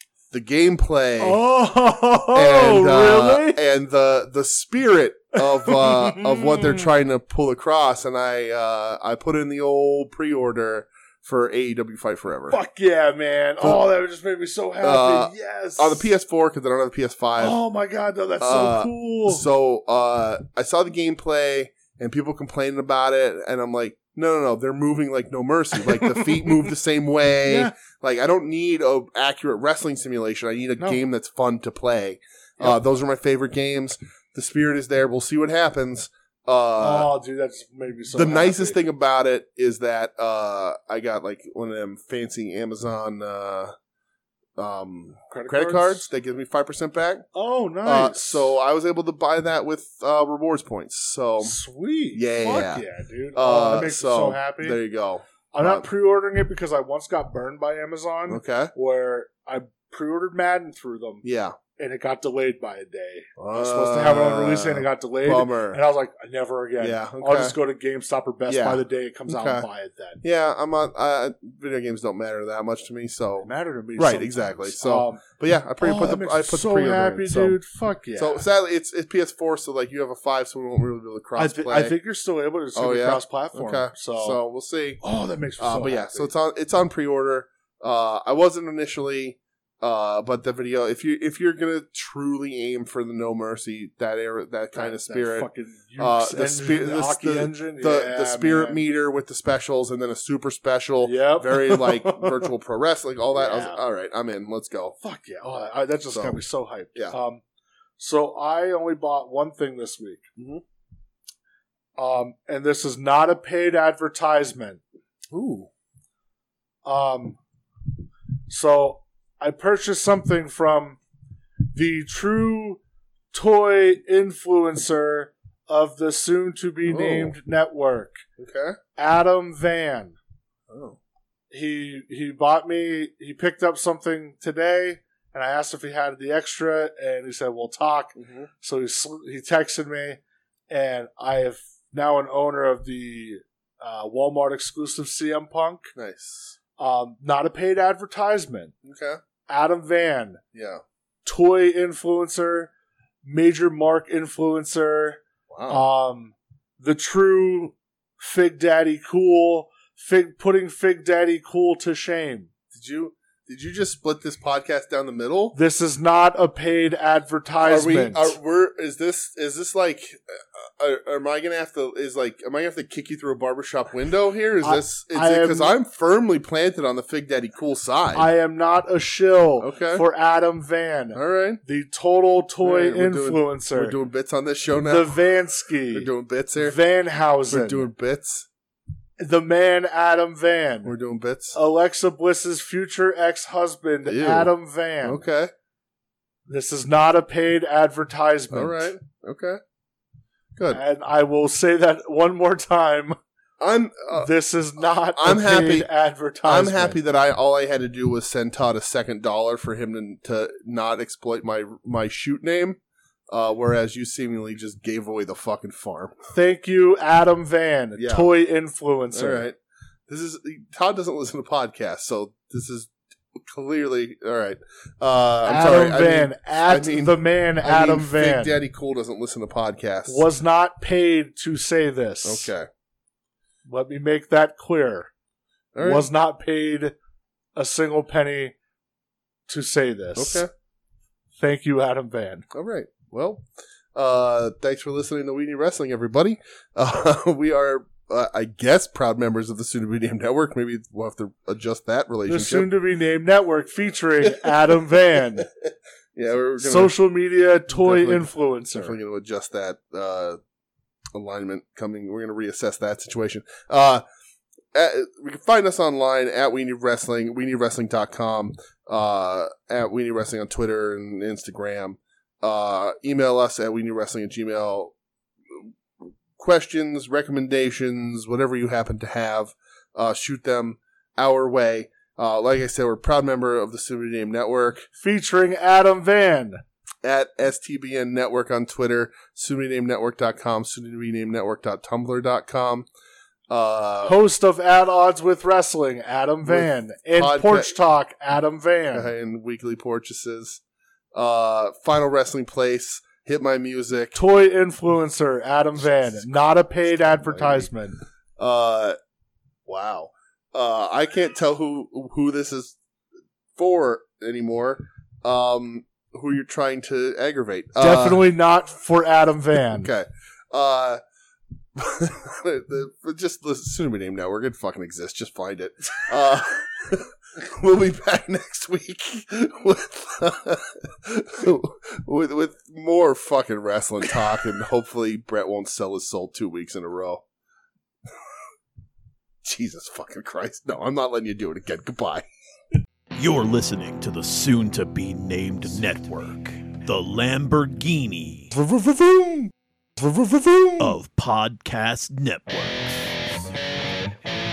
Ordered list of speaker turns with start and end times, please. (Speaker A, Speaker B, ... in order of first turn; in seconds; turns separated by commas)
Speaker A: 0.3-1.4, Speaker B: 1.2-3.6, Speaker A: 2.3-12.6, Speaker B: 5.4-6.9, Speaker B: 12.5-16.1, Speaker A: 14.8-17.6, Speaker B: 17.4-19.4, Speaker A: 18.4-37.1, Speaker B: 25.8-26.6, Speaker B: 27.5-27.7, Speaker B: 36.8-38.8, Speaker A: 38.1-43.7, Speaker A: 44.6-47.2, Speaker B: 45.3-46.0, Speaker B: 47.3-48.5, Speaker A: 47.8-51.6, Speaker B: 51.4-54.8, Speaker A: 52.1-55.9, Speaker B: 55.5-61.2, Speaker A: 58.3-58.7, Speaker A: 61.2-61.6, Speaker B: 61.8-70.2, Speaker A: 63.4-65.8, Speaker A: 66.8-67.5, Speaker A: 68.5-69.7, Speaker A: 70.2-77.6, Speaker B: 73.4-75.2, Speaker B: 75.8-78.4, Speaker A: 78.2-82.0, Speaker B: 81.3-84.4, Speaker A: 82.7-85.0, Speaker B: 85.0-86.3, Speaker A: 85.6-105.0, Speaker B: 94.7-98.8, Speaker B: 101.0-102.5, Speaker B: 103.3-103.8, Speaker B: 105.0-107.4, Speaker A: 106.1-106.4, Speaker B: 108.0-110.3, Speaker A: 110.4-110.6, Speaker B: 112.0-114.8, Speaker A: 115.3-115.7, Speaker B: 116.8-117.4, Speaker B: 118.5-121.0, Speaker B: 121.7-122.8, Speaker B: 123.3-128.2, Speaker A: 126.9-127.3, Speaker A: 128.4-128.8, Speaker B: 128.9-130.2, Speaker A: 130.7-131.0, Speaker B: 131.5-140.2, Speaker A: 138.2-138.5, Speaker B: 140.7-145.9, Speaker A: 145.9-146.6, Speaker B: 146.8-148.7, Speaker A: 148.8-149.2, Speaker B: 149.5-150.4, Speaker A: 150.5-150.8, Speaker B: 151.2-152.7, Speaker B: 153.2-162.5, Speaker A: 155.5-155.8, Speaker A: 162.7-165.6, Speaker B: 165.5-168.4, Speaker A: 167.6-178.3, Speaker B: 174.6-175.7, Speaker B: 178.1-184.0, Speaker A: 179.6-180.0, Speaker A: 181.1-181.6, Speaker A: 182.6-185.2, Speaker B: 184.8-187.9, Speaker A: 185.9-186.8, Speaker A: 187.5-188.5, Speaker B: 189.2-190.9, Speaker A: 190.8-191.6, Speaker B: 191.5-195.2, Speaker A: 194.1-194.5, Speaker A: 195.0-195.5, Speaker B: 196.5-198.9, Speaker A: 198.5-199.6, Speaker B: 200.7-203.2, Speaker A: 203.6-204.3, Speaker B: 204.2-207.0, Speaker A: 205.1-205.9, Speaker A: 206.4-216.2, Speaker B: 216.3-219.4, Speaker A: 218.0-218.3, Speaker A: 219.1-219.6, Speaker A: 220.1-230.2, Speaker B: 225.4-228.6, Speaker B: 230.1-232.5, Speaker A: 232.2-232.7, Speaker B: 233.7-235.1, Speaker A: 235.7-236.1, Speaker B: 235.8-236.9, Speaker B: 237.6-238.5, Speaker B: 239.5-240.4, Speaker A: 240.2-240.5, Speaker B: 241.4-242.4, Speaker A: 242.5-252.7, Speaker B: 252.3-255.5, Speaker A: 254.2-254.5, Speaker A: 255.4-256.9, Speaker B: 256.6-259.0, Speaker A: 257.7-260.4, Speaker A: 261.1-264.0, Speaker A: 264.7-274.9, Speaker A: 276.4-284.9, Speaker B: 285.0-286.6, Speaker A: 287.0-292.9, Speaker A: 293.5-294.2, Speaker B: 294.0-299.1, Speaker A: 296.4-297.7, Speaker A: 298.9-300.6, Speaker A: 301.1-304.2, Speaker B: 304.1-308.0, Speaker A: 305.8-307.7, Speaker A: 308.4-309.0, Speaker A: 309.7-312.8, Speaker A: 313.6-318.3, Speaker B: 317.8-319.9, Speaker A: 319.7-321.0, Speaker A: 321.8-337.2, Speaker A: 339.4-342.2, Speaker C: 343.1-348.5, Speaker B: 348.5-351.0, Speaker C: 350.8-353.2